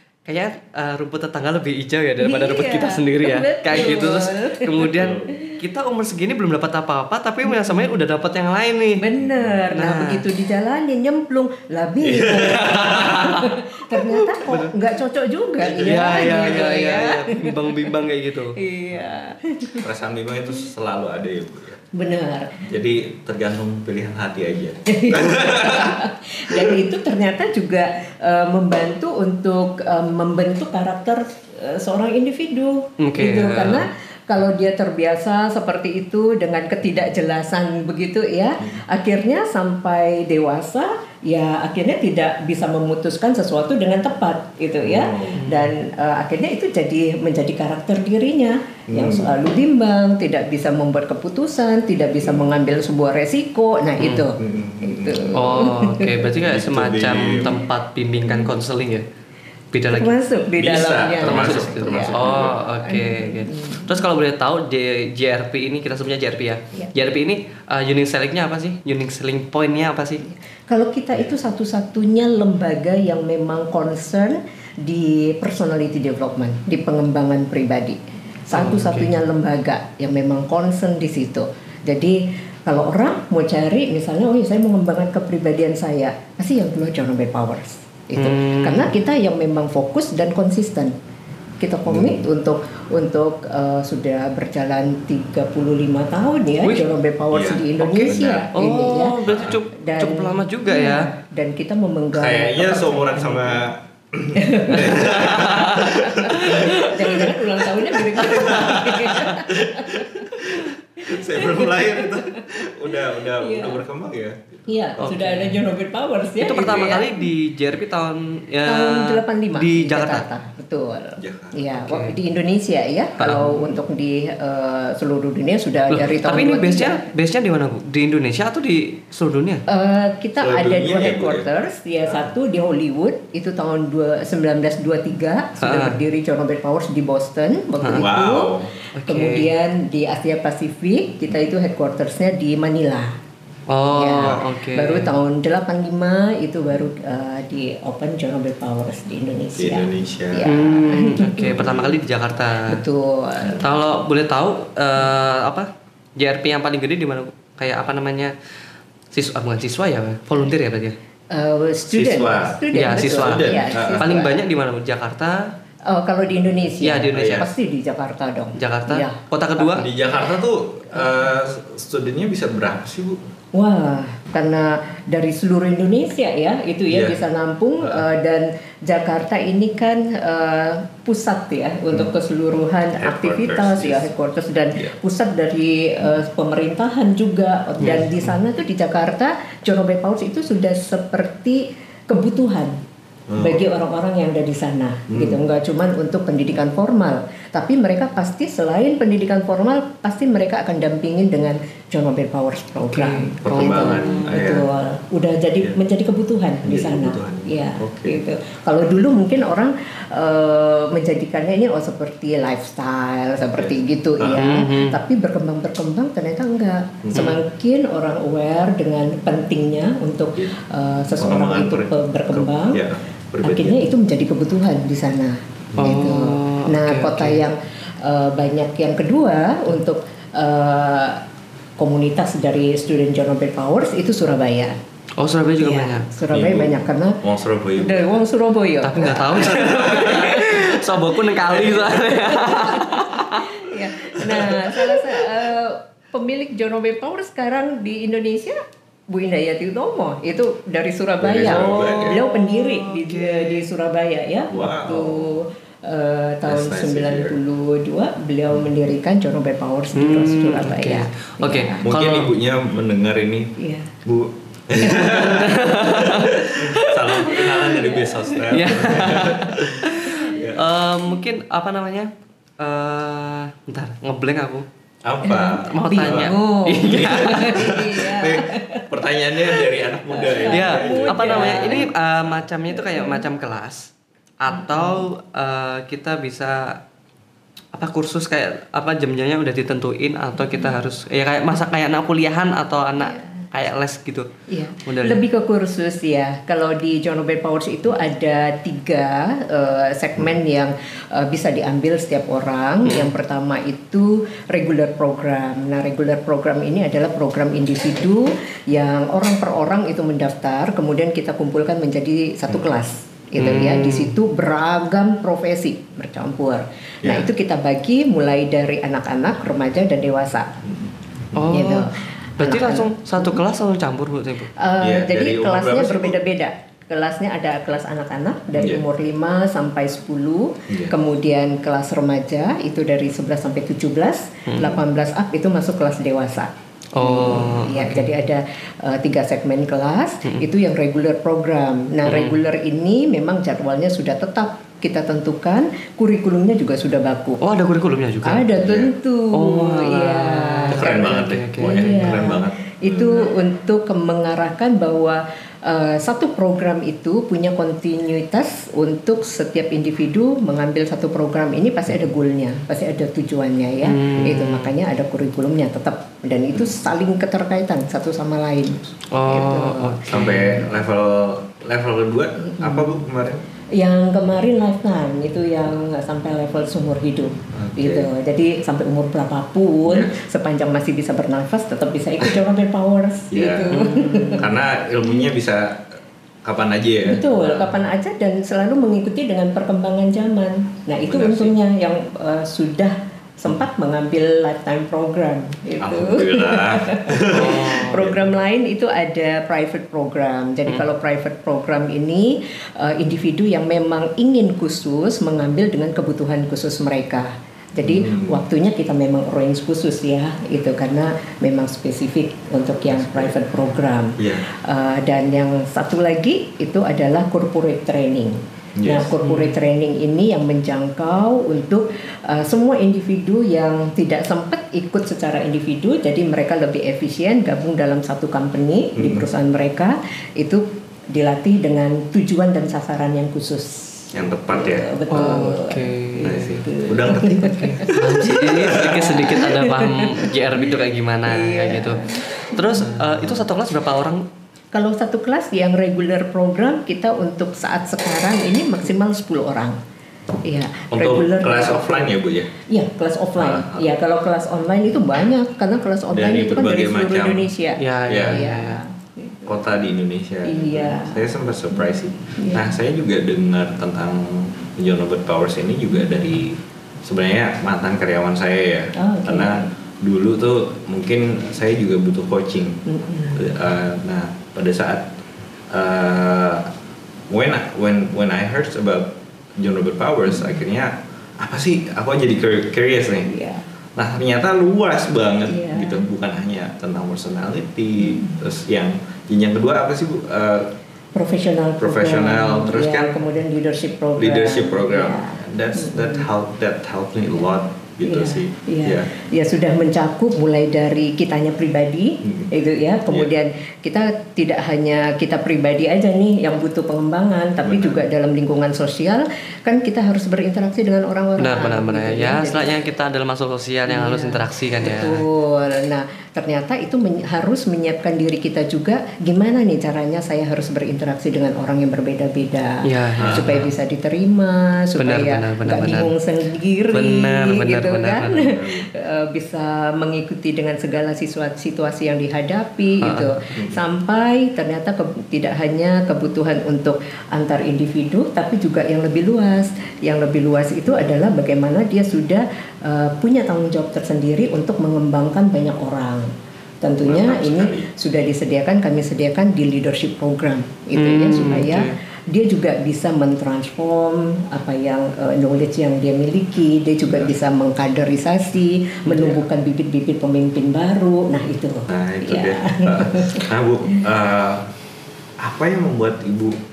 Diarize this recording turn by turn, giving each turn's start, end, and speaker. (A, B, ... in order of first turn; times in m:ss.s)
0:00.2-0:09.0 A
0:02.2-0:05.6 B
0:04.8-0:05.3 C
0:07.4-0:07.9 B
0:09.0-0:17.9 B
0:09.2-0:09.7 C
0:09.7-0:10.2 A
0:12.0-0:13.4 C
0:12.6-0:14.2 A
0:14.4-0:14.7 C
0:15.6-0:17.1 C
0:15.7-0:18.6 A
0:18.6-0:19.9 B
0:19.8-0:21.8 C
0:21.9-0:22.6 B
0:22.6-0:26.8 C
0:24.8-0:56.3 B
0:33.0-0:33.8 A
0:44.8-0:45.4 C
0:45.4-0:45.7 A
0:48.9-0:49.3 C
0:52.2-0:52.5 C
0:54.0-0:54.2 A
0:54.4-0:55.4 C
0:55.3-0:59.0 A
0:56.4-0:57.6 C
0:58.2-0:58.5 C
0:59.7-1:00.1 A
0:59.9-1:03.9 B
1:00.6-1:02.6 C
1:01.2-1:10.2 A
1:10.3-1:30.9 B
1:18.5-1:19.1 A
1:28.2-1:28.9 A
1:31.6-1:39.2 B
1:31.9-1:32.2 C
1:36.6-1:36.9 A
1:37.3-1:38.5 C
1:37.8-1:41.1 A
1:39.2-1:39.6 C
1:39.7-1:43.6 B
1:42.1-1:47.1 C
1:44.3-1:53.8 B
1:45.0-1:46.9 A
1:48.1-1:55.2 C
1:48.3-1:49.2 A
1:54.7-1:57.2 B
1:55.0-1:55.6 A
1:56.4-2:00.2 A
1:56.6-1:56.9 C
1:58.6-2:07.0 B
2:01.2-2:01.6 C
2:01.8-2:02.1 A
2:03.2-2:03.5 A
2:03.4-2:03.8 C
2:05.9-2:09.6 A
2:09.7-2:18.5 B
2:10.4-2:11.5 C
2:15.6-2:16.0 A
2:17.9-2:18.7 C
2:18.9-2:19.5 A
2:19.0-2:23.2 B
2:23.7-2:25.1 A
2:23.9-2:31.8 B
2:29.6-2:30.5 C
2:30.4-2:32.8 A
2:31.4-2:32.0 C
2:32.6-2:33.7 B
2:33.6-2:38.3 A
2:39.1-2:41.0 A
2:41.3-2:44.4 B
2:41.9-2:44.1 C
2:42.7-2:45.4 A
2:45.9-2:49.9 B
2:46.8-2:47.5 A
2:47.1-2:47.5 C
2:48.6-2:49.9 A
2:49.8-2:53.3 C
2:53.5-3:12.8 B
2:56.9-2:57.2 C
3:03.0-3:04.1 C
3:07.8-3:08.1 C
3:13.3-3:13.7 C
3:13.4-3:42.8 B
3:15.1-3:15.4 C
3:22.9-3:24.3 A
3:23.4-3:24.6 C
3:26.6-3:28.2 C
3:33.5-3:34.5 C
3:34.4-3:35.0 A
3:37.0-3:37.3 C
3:37.1-3:37.4 A
3:41.2-3:43.9 C
3:43.4-3:51.2 B
3:45.7-3:46.0 C
3:45.8-3:47.4 A
3:51.8-3:54.8 B
3:55.2-3:56.1 A
3:55.6-3:57.2 B
3:56.3-3:58.2 C
3:57.8-4:00.7 B
3:58.8-4:03.5 A
3:59.3-4:00.5 C
4:01.5-4:01.9 C
4:02.1-4:21.9 B
4:04.7-4:05.0 A
4:11.2-4:12.2 C
4:11.4-4:13.7 A
4:14.5-4:15.3 C
4:16.4-4:17.4 C
4:19.9-4:22.3 A
4:21.8-4:23.5 C
4:23.6-4:23.9 B
4:24.0-4:30.7 C
4:24.8-4:25.5 B
4:24.9-4:34.6 A
4:27.3-4:29.4 B
4:35.0-4:41.8 C
4:35.2-4:41.9 B
4:35.5-4:37.7 A
4:40.5-4:46.8 A
4:42.7-4:43.2 B
4:44.5-4:45.0 B
4:47.7-4:54.3 A
4:53.0-4:53.4 B
4:54.5-5:20.6 B
4:54.8-4:55.2 A
5:02.8-5:03.1 A
5:13.4-5:14.1 A
5:17.0-5:17.3 C
5:20.6-5:21.4 C
5:21.3-5:24.5 A
5:21.5-5:23.4 B
5:24.6-5:47.4 B
5:24.8-5:26.2 C
5:28.5-5:28.8 C
5:30.7-5:30.9 C
5:34.5-5:34.8 A
5:37.0-5:38.1 A
5:42.0-5:42.4 A
5:47.4-5:48.4 A
5:48.2-6:10.4 B
5:48.6-5:48.9 C
5:49.3-5:52.2 A
5:50.7-5:53.3 C
6:03.8-6:04.7 A
6:09.1-6:10.6 A
6:10.1-6:13.4 C
6:12.4-6:13.0 B
6:13.7-6:24.4 B
6:17.5-6:18.1 C
6:19.8-6:20.2 C
6:23.3-6:23.8 C
6:23.7-6:24.5 A
6:24.4-6:27.7 C
6:27.0-7:20.7 B
6:31.1-6:31.5 C
6:35.8-6:38.2 C
6:37.2-6:38.0 A
6:47.8-6:48.4 C
6:52.8-6:53.3 C
6:54.2-6:54.4 C
6:58.8-6:59.1 C
6:59.2-6:59.6 A
7:09.0-7:09.3 C
7:14.1-7:14.9 C
7:15.1-7:16.4 A
7:16.2-7:19.3 C
7:17.6-7:24.2 A
7:21.3-7:22.8 B
7:23.1-7:23.4 C
7:24.7-7:29.8 B
7:30.4-7:32.1 B
7:30.9-7:32.5 C
7:32.7-7:39.5 B
7:33.4-7:33.9 C
7:36.1-7:37.5 C
7:37.8-7:38.8 A
7:38.1-7:38.5 C
7:39.4-7:55.1 C
7:40.4-7:41.3 B
7:42.4-7:42.7 B
7:49.0-7:49.7 B
7:52.9-7:53.4 B
7:55.7-7:56.7 C
7:57.3-8:03.3 C
8:03.2-8:03.7 B
8:04.0-8:10.7 C
8:05.4-8:06.0 B
8:08.1-8:08.4 B
8:11.2-8:16.3 B
8:11.8-8:13.2 C
8:14.2-8:19.1 C
8:18.0-8:32.8 B
8:22.2-8:22.5 C
8:27.6-8:28.0 C
8:31.4-8:35.2 A
8:33.9-9:24.0 B
8:42.8-8:43.6 A
8:43.2-8:43.6 C
8:45.0-8:46.1 A
8:46.9-8:48.6 A
8:48.3-8:48.9 C
8:53.0-8:53.4 A
8:53.5-8:53.8 C
9:07.0-9:07.9 C
9:11.0-9:11.9 A
9:17.1-9:17.3 C
9:19.0-9:19.4 C
9:21.9-9:24.7 C
9:25.4-9:26.6 C